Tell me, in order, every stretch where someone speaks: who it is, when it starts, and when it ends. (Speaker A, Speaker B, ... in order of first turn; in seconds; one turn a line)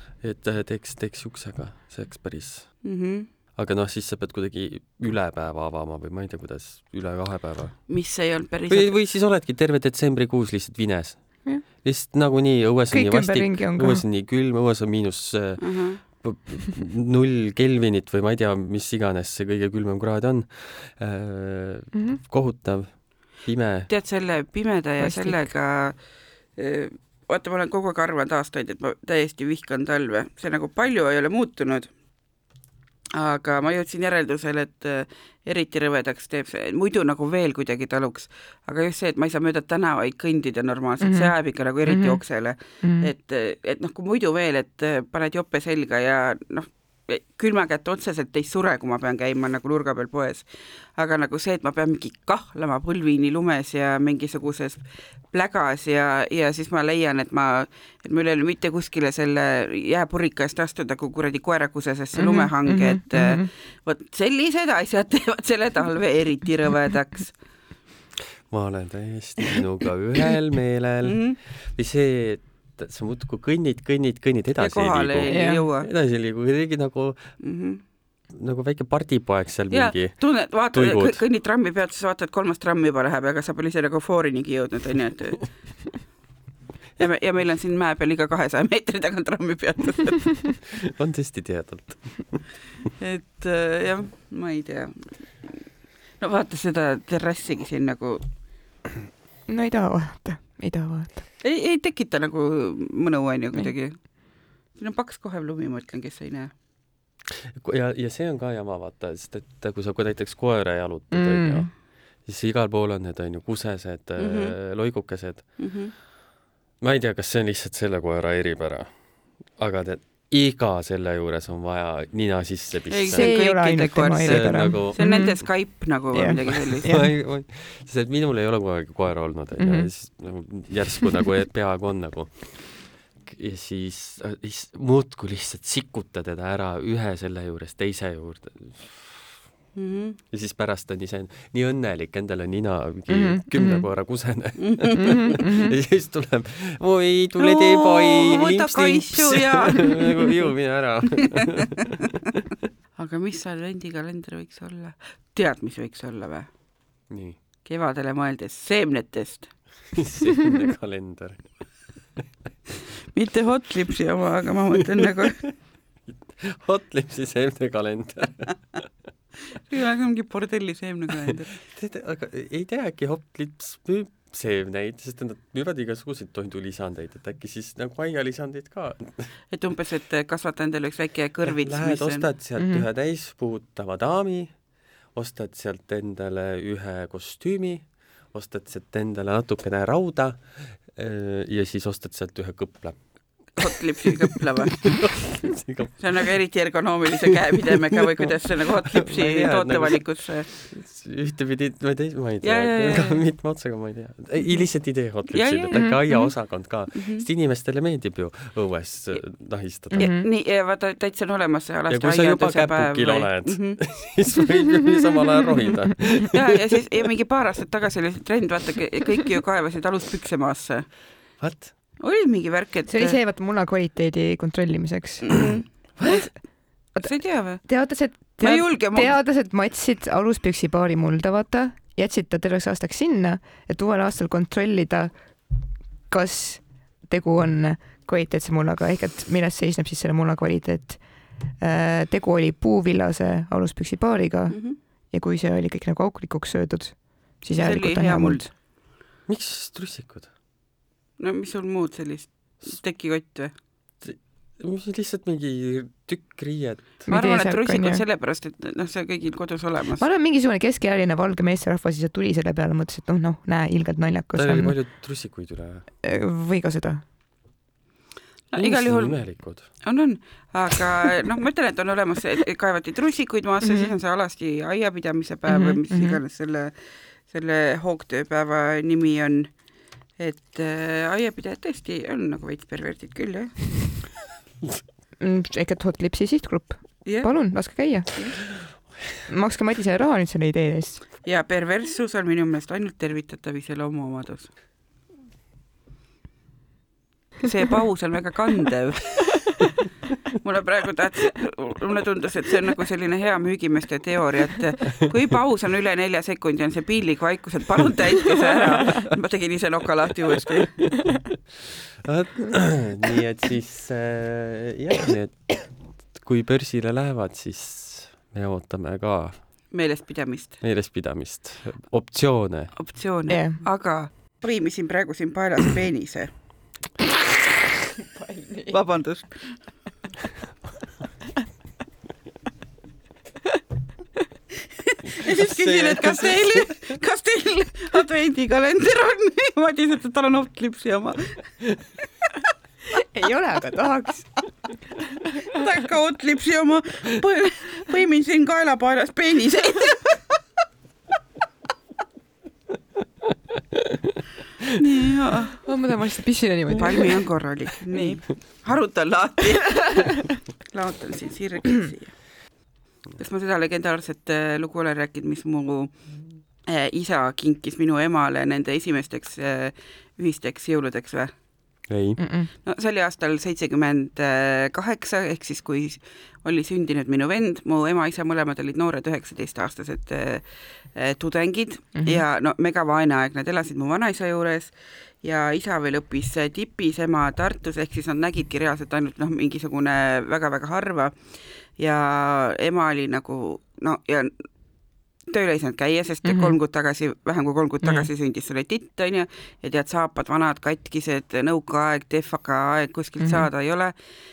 Speaker A: 0.2-2.9
Speaker B: 2.8-3.3
Speaker A: 3.5-8.0
Speaker B: 7.9-9.0
Speaker A: 8.7-23.9
Speaker C: 12.9-14.0
Speaker B: 15.6-16.0
Speaker C: 21.9-22.2
Speaker B: 23.9-31.9
Speaker C: 25.0-25.5
Speaker B: 33.1-67.3
Speaker C: 41.0-41.3
Speaker C: 41.9-43.1
Speaker C: 62.1-63.5
Speaker A: 68.5-77.4
Speaker B: 71.0-71.4
Speaker B: 74.6-75.9
Speaker C: 75.3-75.7
Speaker B: 77.4-77.8
Speaker A: 78.3-81.2
Speaker B: 79.7-86.1
Speaker B: 87.0-90.6
Speaker A: 90.9-92.4
Speaker B: 93.0-95.6
Speaker B: 96.2-98.3
Speaker C: 99.5-101.2
Speaker B: 101.4-106.5
Speaker A: 107.5-115.7
Speaker C: 111.1-111.7
Speaker B: 114.2-114.6
Speaker B: 115.6-115.9
Speaker A: 116.8-123.3
Speaker B: 122.9-127.0
Speaker C: 123.1-127.1
Speaker A: 124.2-125.4
Speaker A: 126.8-139.4
Speaker C: 129.6-129.9
Speaker B: 139.7-140.2
Speaker A: 140.3-151.9
Speaker C: 143.1-143.8
Speaker B: 144.6-145.4
Speaker C: 145.0-145.7
Speaker B: 147.4-150.5
Speaker B: 151.1-151.4
Speaker B: 153.0-156.5
Speaker A: 157.1-157.4
Speaker B: 157.6-159.5
Speaker A: 159.9-161.5
Speaker B: 163.1-165.6
Speaker A: 166.1-168.8
Speaker B: 169.7-171.6
Speaker A: 171.2-179.3
Speaker B: 179.5-182.2
Speaker A: 181.4-196.3
Speaker C: 182.6-182.8
Speaker B: 193.6-195.3
Speaker B: 196.0-200.5
Speaker A: 197.2-198.0
Speaker A: 198.9-210.1
Speaker B: 202.4-203.2
Speaker B: 205.3-206.3
Speaker C: 205.7-206.2
Speaker B: 206.9-207.2
Speaker C: 209.9-210.3
Speaker B: 210.0-214.2
Speaker A: 211.9-216.4
Speaker B: 216.3-220.9
Speaker A: 221.4-221.7
Speaker B: 222.0-223.2
Speaker C: 222.9-225.3
Speaker B: 225.2-229.2
Speaker A: 226.0-226.2
Speaker C: 226.9-235.5
Speaker C: 236.1-248.5
Speaker B: 244.5-244.8
Speaker B: 247.5-248.5
Speaker A: 249.3-250.3
Speaker B: 251.2-253.5
Speaker A: 254.0-257.0
Speaker C: 257.1-258.0
Speaker B: 257.1-260.0
Speaker C: 260.0-264.9
Speaker A: 264.3-265.9
Speaker C: 266.0-267.0
Speaker B: 268.5-276.7
Speaker A: 268.6-269.7
Speaker C: 273.6-273.9
Speaker C: 275.5-276.2
Speaker B: 277.2-279.6
Speaker B: 280.2-284.1
Speaker C: 285.2-288.7
Speaker B: 287.0-288.4
Speaker C: 289.2-291.0
Speaker B: 291.2-294.5
Speaker B: 297.4-299.7
Speaker B: 300.4-311.0
Speaker A: 312.0-319.4
Speaker B: 319.7-320.6
Speaker A: 320.6-322.7
Speaker B: 322.8-326.3
Speaker C: 323.3-323.6
Speaker C: 328.2-328.7
Speaker B: 328.7-329.6
Speaker B: 334.9-341.7
Speaker A: 335.3-336.6
Speaker C: 342.9-344.3
Speaker B: 345.5-350.4
Speaker B: 354.7-355.7
Speaker C: 355.6-357.2
Speaker B: 356.8-362.4
Speaker B: 363.1-366.0
Speaker B: 366.6-371.3
Speaker A: 371.9-372.2
Speaker C: 372.2-372.5
Speaker B: 372.6-394.5
Speaker B: 395.3-403.9
Speaker C: 396.2-396.6
Speaker C: 397.8-398.1
Speaker C: 403.2-403.5